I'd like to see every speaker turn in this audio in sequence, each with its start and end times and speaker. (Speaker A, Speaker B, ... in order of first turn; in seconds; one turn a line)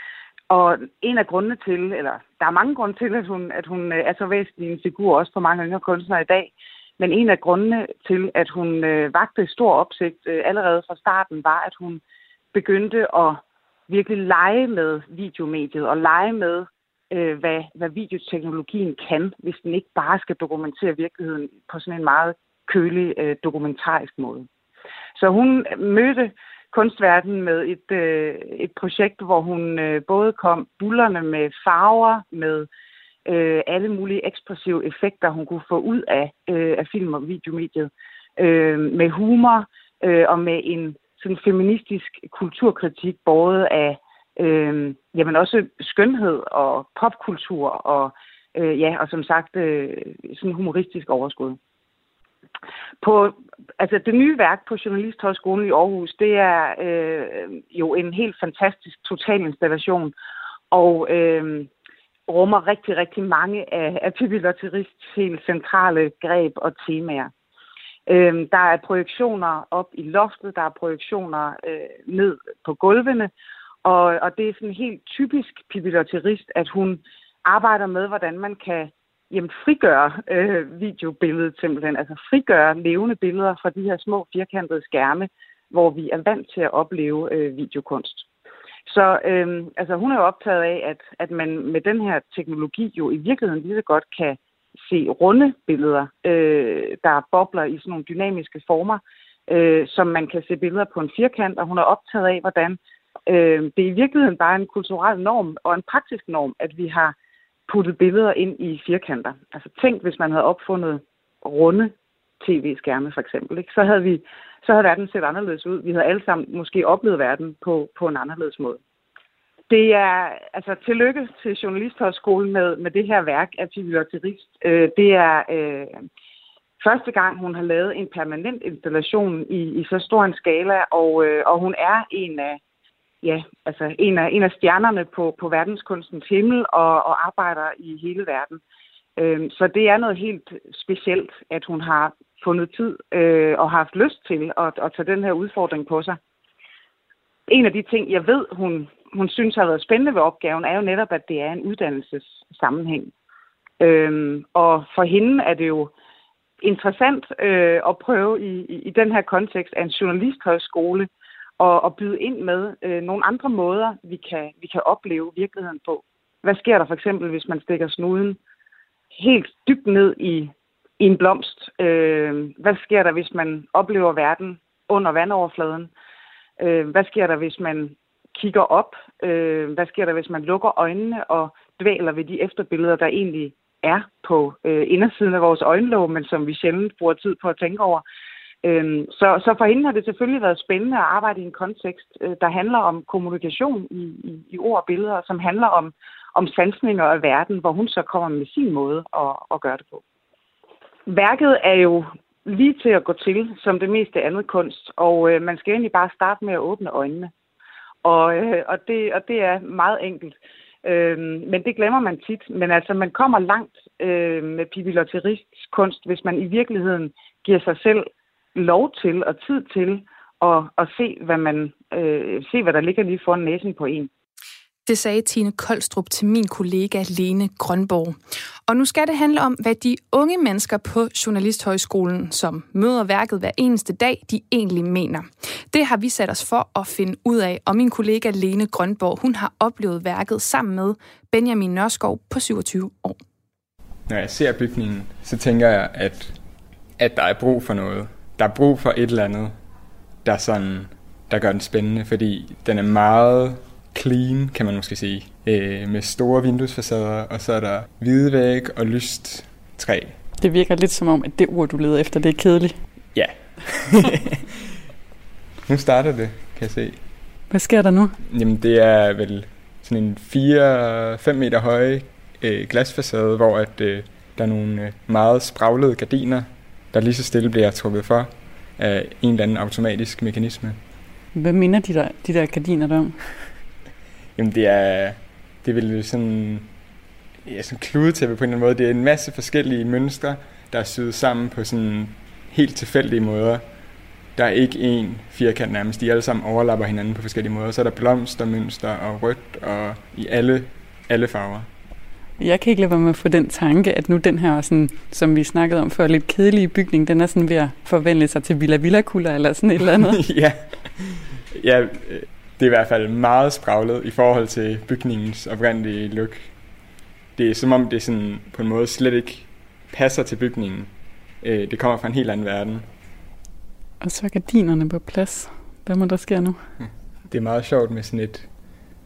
Speaker A: 0.5-12.0
Speaker A: 12.5-24.5
Speaker A: 25.1-32.7
Speaker A: 33.2-51.6
Speaker A: 53.0-60.1
Speaker A: 60.7-61.7
Speaker A: 62.3-67.3
Speaker A: 68.1-73.3
Speaker A: 73.8-88.2
Speaker A: 88.9-107.1
Speaker A: 107.7-118.8
Speaker A: 119.7-125.9
Speaker A: 126.8-132.6
Speaker A: 133.2-138.6
Speaker A: 139.2-146.2
Speaker A: 147.5-153.1
Speaker A: 153.8-155.9
Speaker A: 156.6-168.4
Speaker A: 169.2-175.9
Speaker A: 176.6-188.0
Speaker A: 188.6-200.0
Speaker A: 201.1-207.3
Speaker A: 208.0-224.1
Speaker B: 224.8-228.2
Speaker B: 228.7-243.2
Speaker C: 244.1-246.3
Speaker C: 247.0-249.5
Speaker C: 250.2-260.2
Speaker D: 260.4-262.7
Speaker C: 263.1-264.2
Speaker C: 265.6-267.0
Speaker D: 267.5-268.1
Speaker C: 268.2-280.8
Speaker D: 281.4-283.1
Speaker C: 284.4-286.7
Speaker C: 287.4-293.6
Speaker C: 294.4-301.7
Speaker D: 302.4-310.1
Speaker C: 310.2-316.7
Speaker C: 317.3-322.9
Speaker D: 324.0-326.6
Speaker C: 327.3-328.5